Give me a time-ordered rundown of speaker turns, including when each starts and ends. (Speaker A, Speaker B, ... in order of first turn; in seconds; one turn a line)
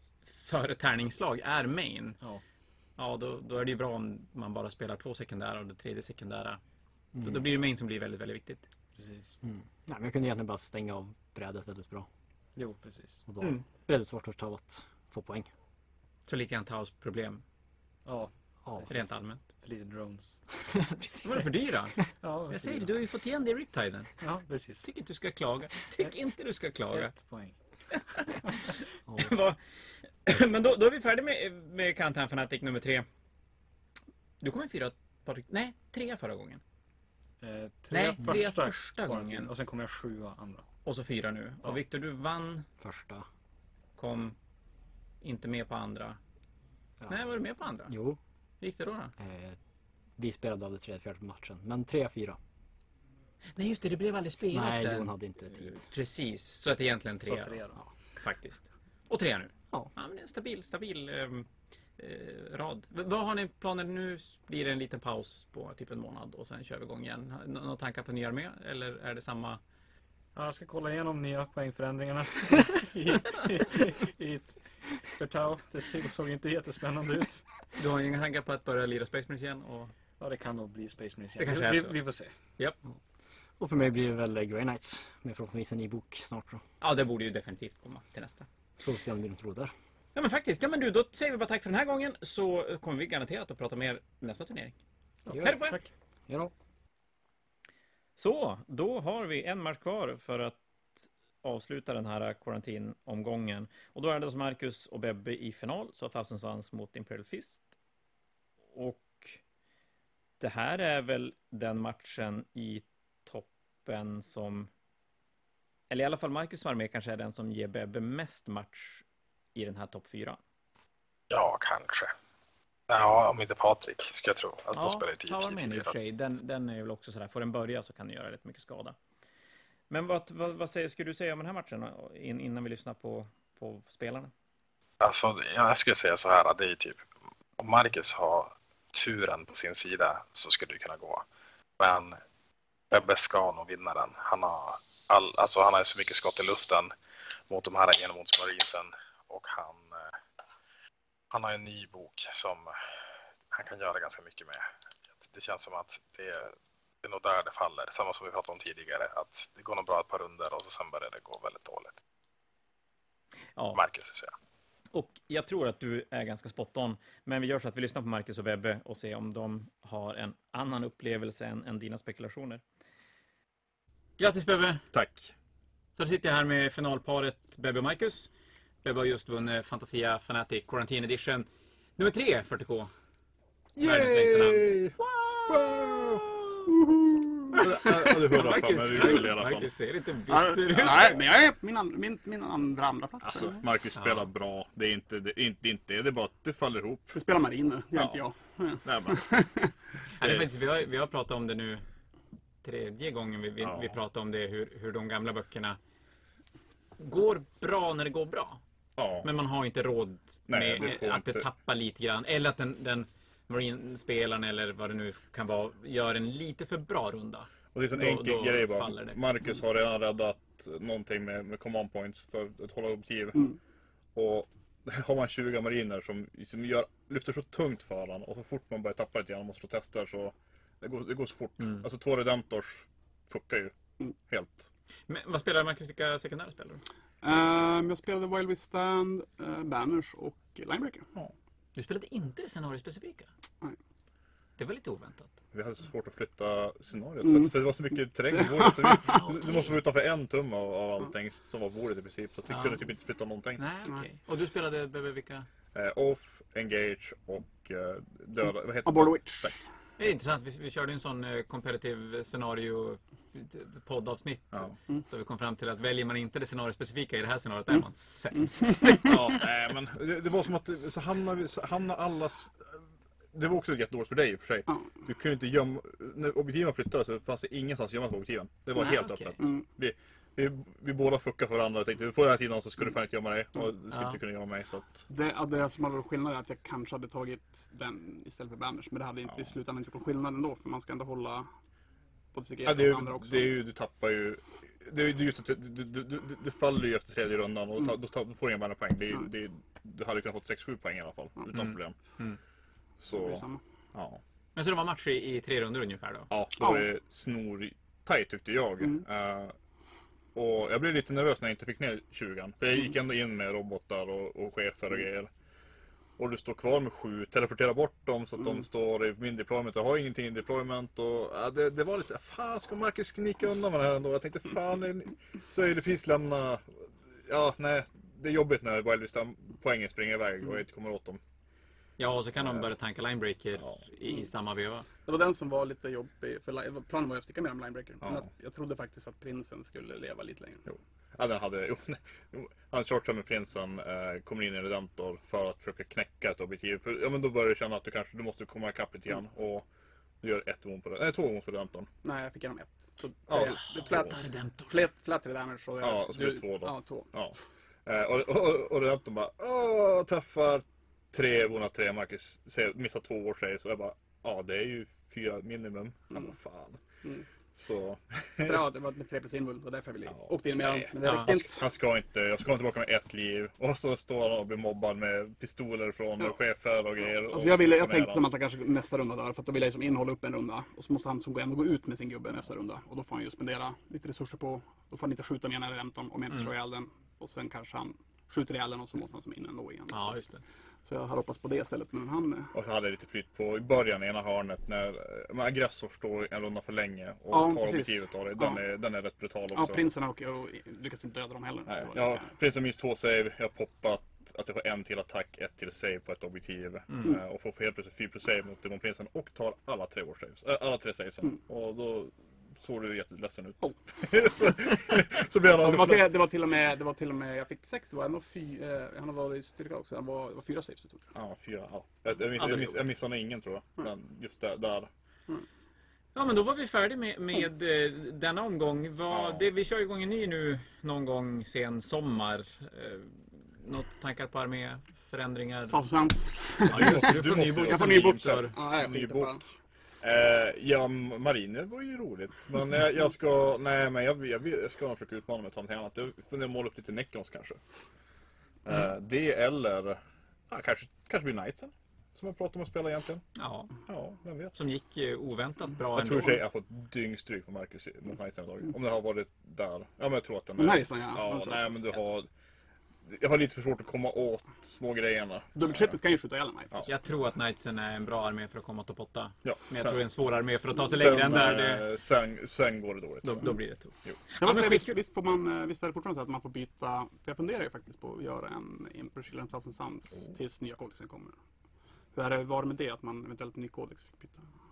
Speaker A: 0.2-2.2
Speaker A: 3.0-6.6
Speaker B: 7.1-7.4
Speaker A: 7.2-8.7
Speaker C: 8.9-9.4
Speaker B: 9.4-12.1
Speaker C: 12.5-13.2
Speaker B: 13.3-15.5
Speaker A: 16.2-17.4
Speaker C: 18.0-20.6
Speaker B: 18.6-19.1
Speaker A: 18.9-19.4
Speaker B: 20.8-21.4
Speaker A: 21.2-24.2
Speaker C: 22.2-22.9
Speaker C: 24.2-24.9
Speaker A: 24.8-27.1
Speaker C: 26.9-27.6
Speaker A: 27.9-33.0
Speaker A: 34.4-36.6
Speaker C: 37.4-40.7
Speaker A: 37.9-39.5
Speaker A: 40.9-42.7
Speaker B: 42.8-43.2
Speaker A: 44.0-44.4
Speaker A: 45.2-46.2
Speaker B: 47.0-47.3
Speaker A: 47.1-47.9
Speaker B: 47.9-48.2
Speaker A: 48.6-49.1
Speaker B: 49.2-49.6
Speaker B: 50.2-52.4
Speaker A: 53.5-57.6
Speaker B: 54.5-55.9
Speaker C: 57.2-57.8
Speaker A: 58.2-69.6
Speaker C: 70.3-77.5
Speaker A: 77.7-79.9
Speaker C: 80.2-82.3
Speaker A: 81.4-82.0
Speaker B: 83.6-86.6
Speaker A: 86.8-88.5
Speaker B: 88.8-89.7
Speaker A: 90.1-94.8
Speaker B: 95.2-95.7
Speaker A: 95.4-95.8
Speaker C: 95.6-95.9
Speaker B: 96.3-96.5
Speaker A: 98.2-107.7
Speaker A: 108.7-109.4
Speaker A: 110.4-114.7
Speaker A: 115.9-120.4
Speaker D: 121.3-122.1
Speaker D: 122.9-126.0
Speaker A: 124.7-128.9
Speaker A: 129.9-134.3
Speaker D: 135.0-137.0
Speaker D: 137.6-141.2
Speaker D: 141.8-142.2
Speaker D: 142.9-146.9
Speaker D: 147.5-150.2
Speaker D: 151.3-152.8
Speaker D: 153.5-162.0
Speaker A: 163.5-163.8
Speaker D: 163.7-164.3
Speaker A: 164.9-172.6
Speaker A: 174.2-174.8
Speaker E: 174.9-175.3
Speaker A: 176.0-178.3
Speaker A: 178.8-182.9
Speaker E: 183.8-189.7
Speaker A: 183.8-186.5
Speaker F: 188.2-188.5
Speaker A: 188.3-191.1
Speaker F: 190.3-193.6
Speaker E: 193.2-197.2
Speaker A: 193.9-194.3
Speaker F: 197.1-199.7
Speaker E: 197.9-198.3
Speaker E: 198.8-199.2
Speaker A: 200.2-201.8
Speaker E: 200.2-200.5
Speaker A: 202.6-205.8
Speaker E: 203.6-204.0
Speaker A: 207.0-208.6
Speaker E: 209.0-209.3
Speaker A: 209.2-219.2
Speaker E: 210.5-211.5
Speaker E: 217.7-223.6
Speaker E: 224.1-234.7
Speaker A: 231.6-231.8
Speaker A: 235.1-236.8
Speaker F: 237.2-241.1
Speaker A: 241.7-243.3
Speaker A: 244.6-245.3
Speaker E: 245.5-253.6
Speaker F: 247.2-247.6
Speaker F: 248.3-249.1
Speaker A: 249.1-249.7
Speaker A: 252.5-252.8
Speaker A: 253.6-255.5
Speaker E: 255.7-259.6
Speaker F: 258.8-259.6
Speaker A: 260.0-269.3
Speaker E: 269.0-285.0
Speaker A: 278.8-279.4
Speaker F: 279.4-279.6
Speaker A: 283.9-284.2
Speaker F: 285.1-291.5
Speaker F: 292.3-293.5
Speaker E: 292.6-301.9
Speaker A: 301.5-302.4
Speaker E: 303.0-304.2
Speaker F: 303.1-303.6
Speaker A: 304.5-306.3
Speaker E: 306.3-309.5
Speaker F: 306.6-306.9
Speaker E: 310.3-315.3
Speaker E: 316.2-331.2
Speaker A: 332.0-334.9
Speaker F: 335.1-340.6
Speaker E: 340.6-349.7
Speaker E: 350.2-351.9
Speaker F: 352.0-357.2
Speaker E: 353.3-354.2
Speaker A: 353.9-354.8
Speaker E: 355.8-366.8
Speaker E: 367.5-368.6
Speaker F: 368.4-371.6
Speaker E: 370.1-378.3
Speaker F: 377.3-390.3
Speaker A: 389.9-390.4
Speaker F: 390.8-392.5
Speaker E: 392.5-399.9
Speaker F: 397.3-398.6
Speaker F: 399.5-402.3
Speaker E: 401.7-416.1
Speaker F: 415.5-421.1
Speaker E: 421.1-424.9
Speaker F: 422.4-422.7
Speaker A: 426.1-435.8
Speaker E: 429.1-429.5
Speaker F: 435.7-439.4
Speaker A: 436.7-438.5
Speaker E: 436.7-439.4
Speaker E: 440.0-447.6
Speaker E: 448.6-453.2
Speaker A: 453.3-453.8
Speaker E: 453.9-454.6
Speaker A: 454.5-456.4
Speaker E: 455.9-462.3
Speaker F: 460.6-461.7
Speaker E: 463.0-465.9
Speaker F: 465.5-466.8
Speaker A: 466.9-471.8
Speaker E: 469.4-470.0
Speaker E: 470.8-474.2
Speaker A: 473.2-474.9
Speaker F: 474.4-481.3
Speaker F: 482.1-484.4